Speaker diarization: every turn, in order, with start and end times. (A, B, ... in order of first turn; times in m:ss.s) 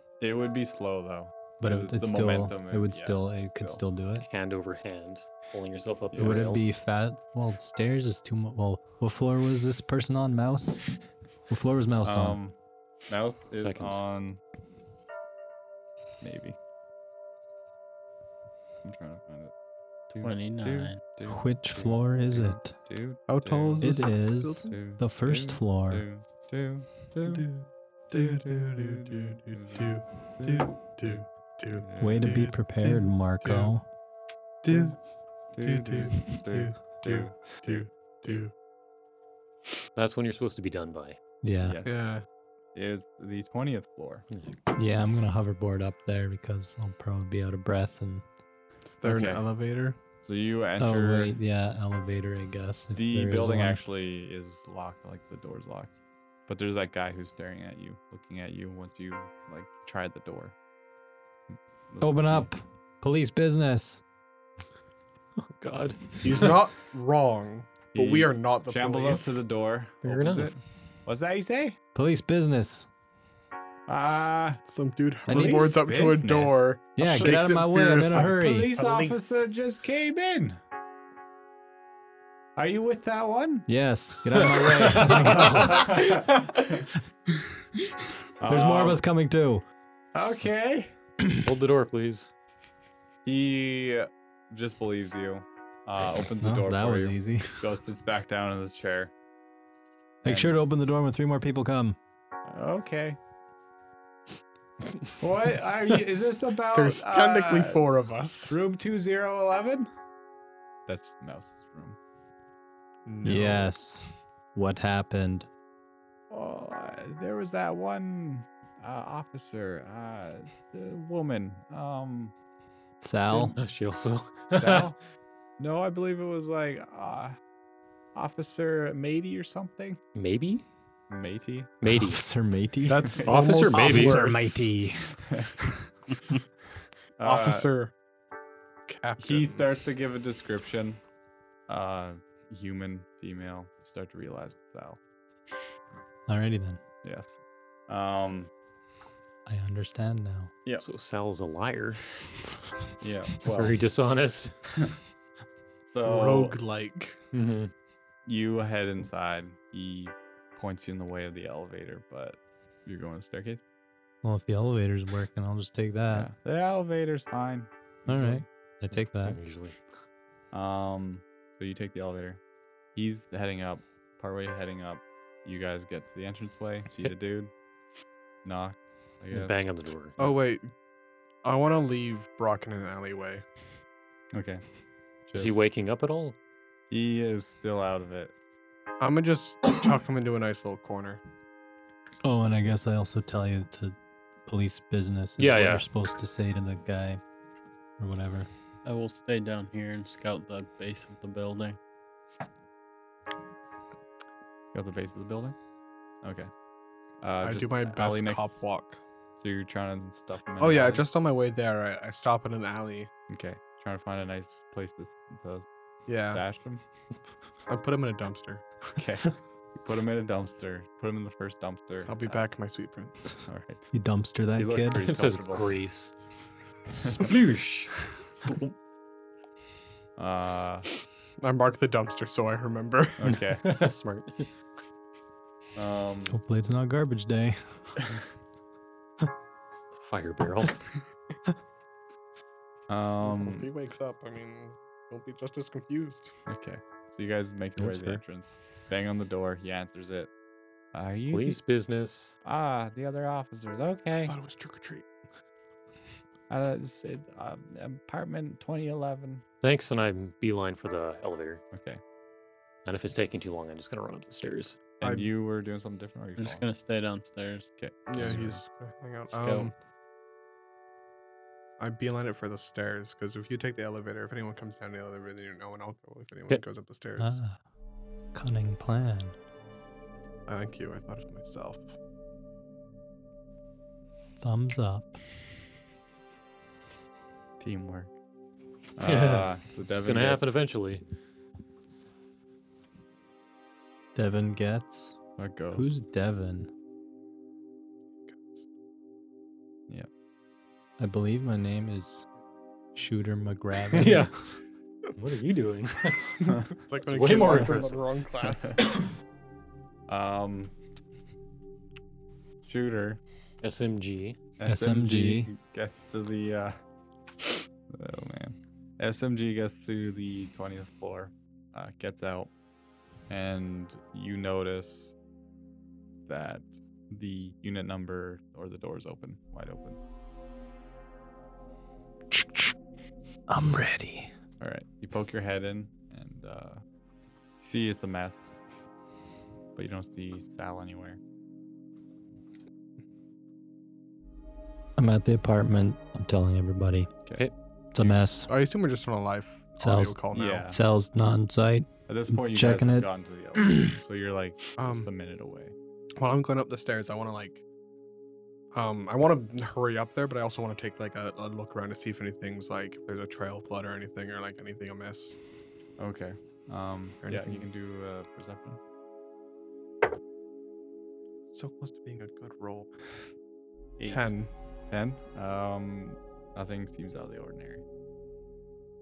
0:00.2-0:03.8 A
0:01.6-0:04.3 B
0:04.2-0:06.6 C
0:06.1-0:06.4 A
0:06.2-0:10.8 B
0:11.5-0:12.4 B
0:12.0-0:12.6 A
0:13.1-0:14.4 A
0:13.6-0:14.0 C
0:16.2-0:16.6 A
0:18.8-0:19.5 A
0:20.1-0:24.1 A
0:20.2-0:21.0 D
0:21.3-0:22.7 B
0:23.3-0:24.7 E
0:23.8-0:26.0 B
0:24.7-0:27.5 A
0:27.2-0:33.7 E
0:28.1-0:32.4 A
0:32.0-0:33.8 B
0:34.6-0:35.0 E
0:34.7-0:34.9 A
0:35.5-0:38.4 A
0:35.6-0:38.5 E
0:39.9-0:41.2 C
0:41.4-0:41.8 B
0:41.6-0:42.0 A
0:41.8-0:42.2 E
0:42.7-0:44.2 A
0:44.3-0:44.6 C
0:44.7-0:48.2 B
0:48.8-0:50.0 E
0:49.0-0:49.4 A
0:50.2-0:51.4 A
0:50.8-0:53.8 B
0:52.9-0:55.9 A
0:56.5-1:00.5 A
1:01.5-1:02.5 A
1:02.0-1:04.0 B
1:05.4-1:06.6 C
1:06.2-1:09.4 E
1:07.9-1:11.8 A
1:10.0-1:10.5 C
1:11.9-1:12.9 B
1:13.9-1:14.6 A
1:14.7-1:19.4 E
1:15.3-1:15.7 B
1:15.3-1:17.4 A
1:17.0-1:18.7 B
1:18.1-1:20.6 A
1:22.6-1:23.7 A
1:23.7-1:25.9 B
1:24.6-1:25.7 C
1:24.9-1:26.8 A
1:28.4-1:29.0 A
1:28.4-1:29.6 B
1:30.1-1:30.9 A
1:31.4-1:32.3 C
1:33.2-1:39.1 A
1:36.4-1:37.6 B
1:40.2-1:40.6 A
1:40.2-1:42.0 B
1:42.5-1:43.2 A
1:45.2-1:47.8 A
1:46.7-1:48.6 E
1:48.5-1:49.9 A
1:50.9-1:52.0 A
1:53.0-1:53.7 E
1:53.2-1:55.5 B
1:56.3-2:02.3 A
2:03.0-2:03.6 B
2:03.5-2:04.9 C
2:04.5-2:05.0 A
2:05.6-2:07.4 A
2:08.1-2:10.0 A
2:10.1-2:10.6 C
2:11.1-2:11.7 A
2:11.8-2:12.2 C
2:11.9-2:15.1 B
2:12.8-2:14.7 E
2:13.2-2:13.4 A
2:13.2-2:14.3 C
2:15.2-2:15.6 A
2:17.2-2:17.7 A
2:17.2-2:17.9 E
2:18.9-2:19.7 E
2:19.2-2:21.0 A
2:21.7-2:25.0 A
2:26.3-2:26.8 B
2:27.0-2:28.5 A
2:29.4-2:30.5 B
2:30.8-2:32.0 C
2:33.0-2:33.8 A
2:33.5-2:34.6 C
2:35.8-2:36.6 A
2:36.0-2:37.2 E
2:37.3-2:37.7 C
2:38.2-2:43.6 A
2:44.2-2:46.3 B
2:46.1-2:48.4 A
2:48.1-2:49.4 B
2:48.9-2:49.8 C
2:50.5-2:52.4 A
2:52.9-2:57.5 A
2:58.4-2:59.5 A
2:59.3-3:00.2 C
3:00.2-3:00.7 E
3:01.4-3:03.4 E
3:04.3-3:04.6 A
3:05.3-3:05.6 A
3:05.3-3:06.4 C
3:06.9-3:08.3 A
3:09.0-3:11.2 E
3:12.2-3:17.2 B
3:15.4-3:15.8 C
3:18.0-3:18.5 B
3:18.8-3:21.8 D
3:24.7-3:25.6 A
3:26.2-3:26.5 A
3:27.2-3:28.6 A
3:27.4-3:29.0 E
3:29.4-3:31.0 A
3:30.6-3:33.1 E
3:33.3-3:35.7 A
3:36.1-3:36.4 E
3:36.3-3:36.8 A
3:37.7-3:38.6 E
3:39.0-3:42.4 A
3:42.1-3:43.3 E
3:43.4-3:43.9 A
3:43.9-3:45.0 B
3:44.5-3:45.6 A
3:45.0-3:46.1 C
3:46.9-3:48.0 C
3:50.2-3:50.9 A
3:51.4-3:53.4 E
3:53.2-3:53.7 A
3:53.5-3:54.5 C
3:55.8-3:56.4 A
3:56.3-3:58.0 B
3:59.9-4:00.8 C
4:02.9-4:03.7 A
4:03.2-4:06.3 E
4:06.5-4:10.3 A
4:07.8-4:08.2 C
4:10.9-4:11.6 A
4:11.3-4:12.4 C
4:12.4-4:14.3 A
4:14.3-4:15.0 E
4:16.5-4:19.4 A
4:19.6-4:21.6 C
4:21.7-4:22.0 A
4:22.8-4:24.8 C
4:25.0-4:26.7 A
4:25.0-4:25.3 E
4:26.4-4:27.7 D
4:27.8-4:28.6 A
4:28.1-4:29.7 E
4:29.3-4:29.7 D
4:31.8-4:37.4 E
4:37.2-4:37.6 B
4:38.3-4:39.3 B
4:40.5-4:41.9 E
4:44.4-4:45.2 B
4:47.6-4:48.1 A
4:49.0-4:50.5 A
4:49.0-4:51.0 C
4:54.1-4:55.2 B
4:55.4-4:55.9 A
4:55.7-4:56.7 B
4:58.3-4:58.6 E
5:01.0-5:02.2 B
5:02.9-5:04.3 B
5:03.9-5:04.3 C
5:05.2-5:06.4 C
5:06.5-5:07.9 A
5:06.8-5:08.9 E
5:07.0-5:07.9 C
5:08.4-5:08.8 A
5:10.1-5:10.7 A
5:12.6-5:13.2 A
5:13.6-5:14.4 C
5:14.6-5:16.8 A
5:14.6-5:15.5 B
5:17.9-5:22.5 A
5:23.3-5:25.1 A
5:26.3-5:30.0 A
5:32.3-5:32.7 B
5:33.5-5:34.3 B
5:34.6-5:36.8 A
5:37.6-5:38.6 A
5:39.7-5:41.2 A
5:45.0-5:47.1 B
5:47.2-5:48.2 A
5:47.9-5:48.5 B
5:48.5-5:50.7 E
5:49.8-5:53.1 B
5:50.3-5:50.8 A
5:52.1-5:55.7 A
5:54.8-5:55.1 E
5:56.2-5:57.6 E
5:58.7-6:05.4 E
6:06.0-6:08.8 A
6:07.2-6:07.6 E
6:11.5-6:12.9 E
6:14.0-6:14.5 E
6:14.9-6:17.8 A